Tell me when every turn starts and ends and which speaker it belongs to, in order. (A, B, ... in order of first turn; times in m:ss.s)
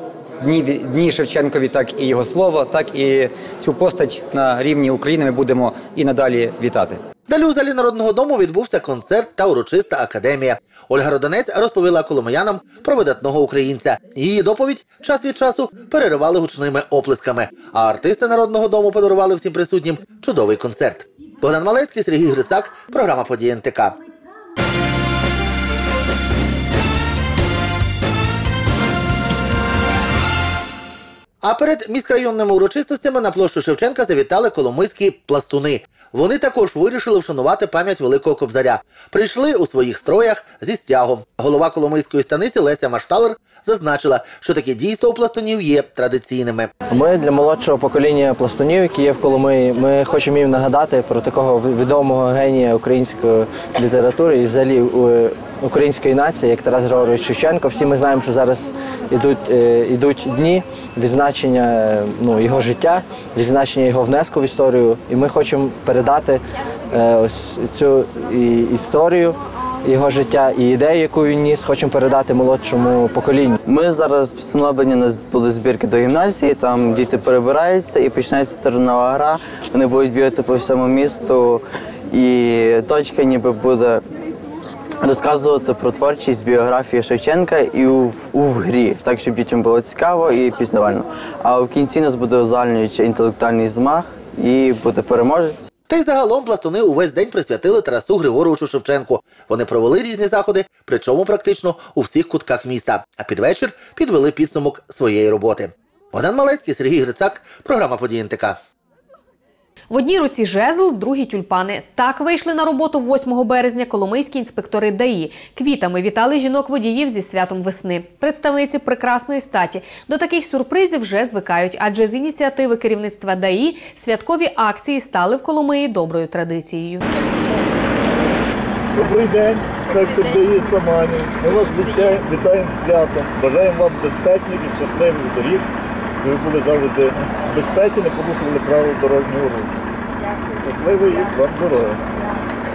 0:00.4-0:07.0 A
0:07.3-0:24.0 B
0:31.4-0:46.7 B
0:46.9-1:06.4 C
1:06.9-1:13.6 C
1:13.7-1:24.0 D
1:25.0-1:35.7 D
1:35.9-1:48.6 B
1:49.9-2:07.0 E
2:08.9-2:15.6 F
2:16.2-2:19.7 F
2:20.6-2:22.0 F